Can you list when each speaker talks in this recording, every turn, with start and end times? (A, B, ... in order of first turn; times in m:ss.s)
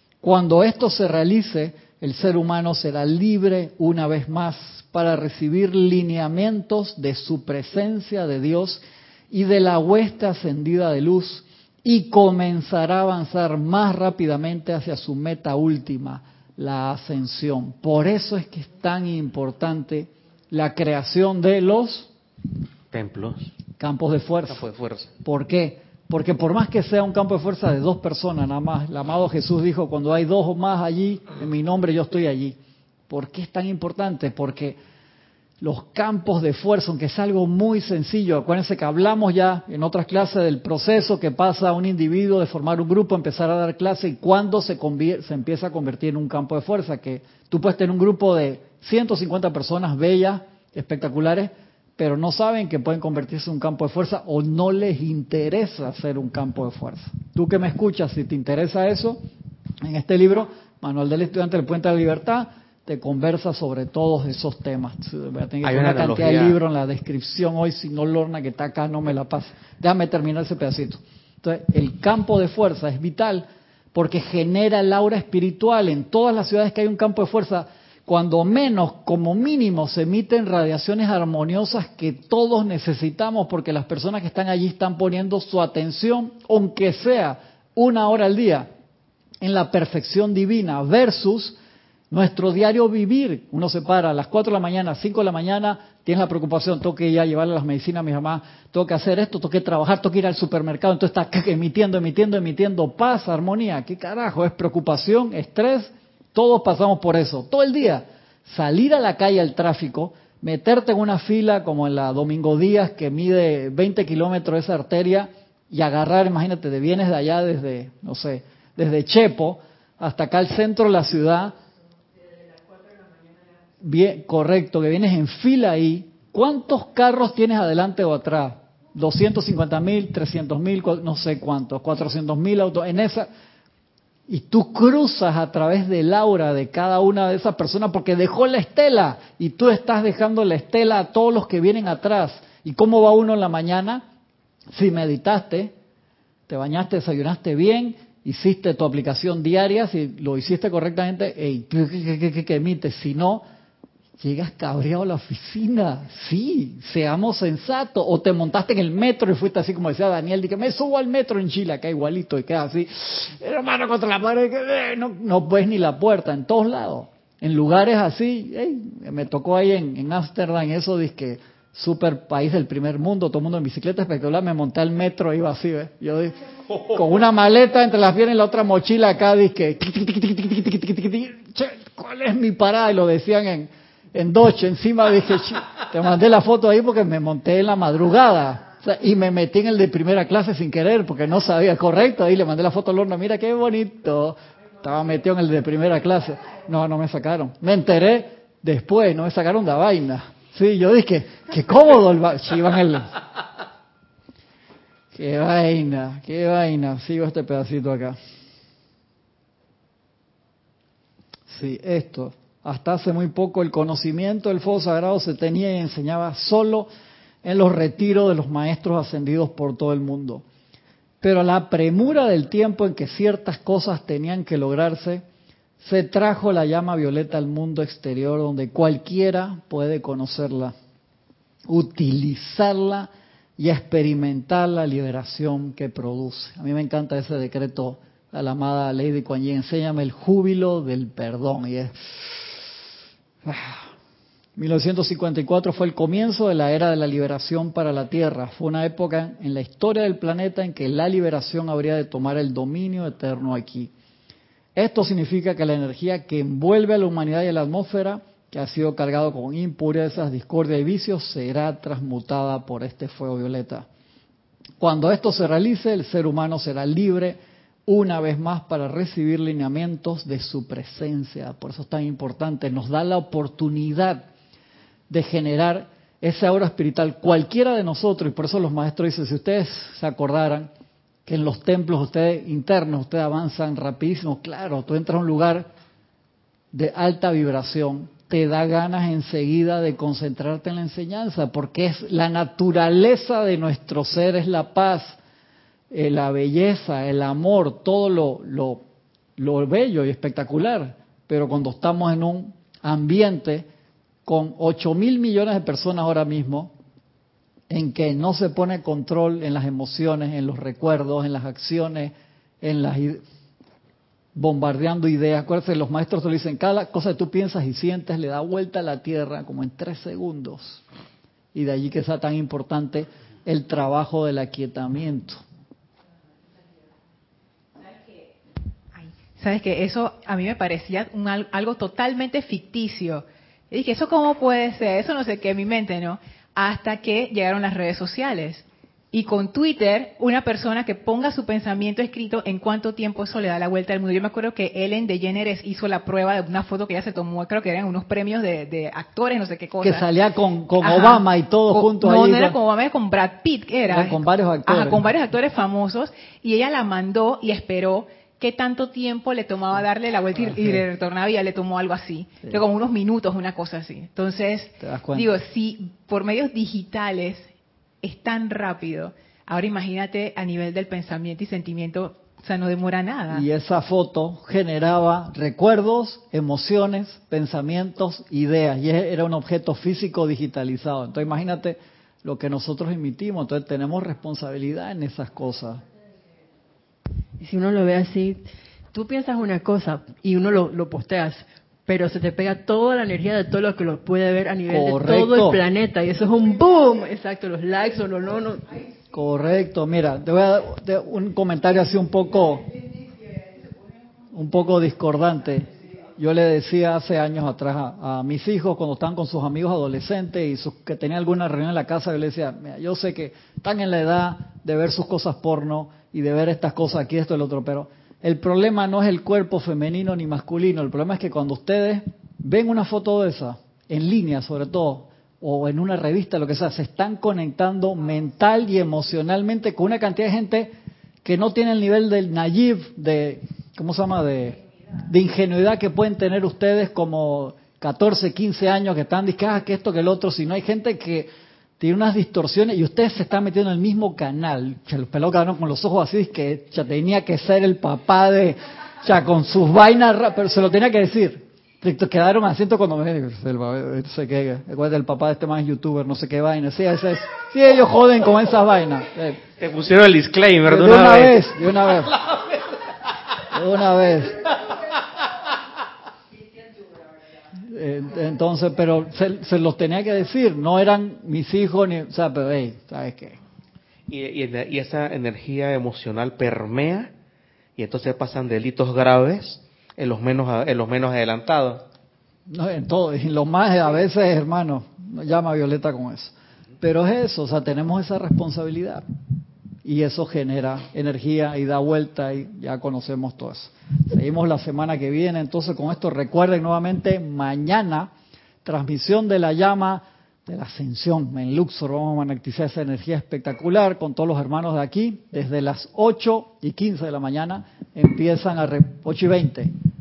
0:00.2-0:22.1 A
0:22.9-0:23.5 B
0:23.8-0:32.6 A
0:24.5-0:25.1 B
0:33.1-0:34.8 A
0:35.6-0:59.2 A
0:59.8-1:28.7 A
1:05.6-1:06.6 B
1:29.4-1:31.6 A
1:32.1-2:01.5 A
2:03.8-2:13.3 A
2:14.3-2:24.0 A
2:24.7-2:25.7 A
2:26.5-2:33.4 A
2:34.2-3:23.1 A
3:25.1-3:28.2 A
3:31.5-3:36.9 A
3:37.4-3:40.4 A
3:41.2-3:45.2 A
3:45.8-3:50.7 A
3:51.7-4:02.5 A
4:03.4-4:03.8 A
4:04.6-4:13.9 A
4:14.7-4:23.9 A
4:24.8-4:34.3 A
4:35.1-4:40.7 A
4:41.2-4:45.7 A
4:46.7-4:55.2 A
4:55.9-4:58.8 A
4:59.4-5:03.7 A
5:04.2-5:06.7 A
5:07.7-5:13.2 A
5:14.3-5:20.8 A
5:21.5-5:25.4 A
5:28.9-5:50.0 C
5:49.8-5:52.6 A
5:50.8-6:07.5 C
5:53.9-5:55.1 A
6:00.4-6:00.8 A
6:04.8-6:05.3 A
6:08.0-6:13.4 C
6:13.3-6:25.8 A
6:27.4-6:38.6 D
6:34.7-6:35.6 A
6:39.1-6:42.7 A
6:44.3-7:10.7 A
7:11.2-7:39.4 A
7:39.6-7:41.4 B
7:40.6-7:42.2 A
7:43.5-7:44.5 A
7:47.6-7:53.4 A
7:54.1-7:57.1 B
7:57.8-8:01.8 B
8:02.5-8:09.0 A
8:09.8-8:18.1 A
8:18.6-8:29.7 A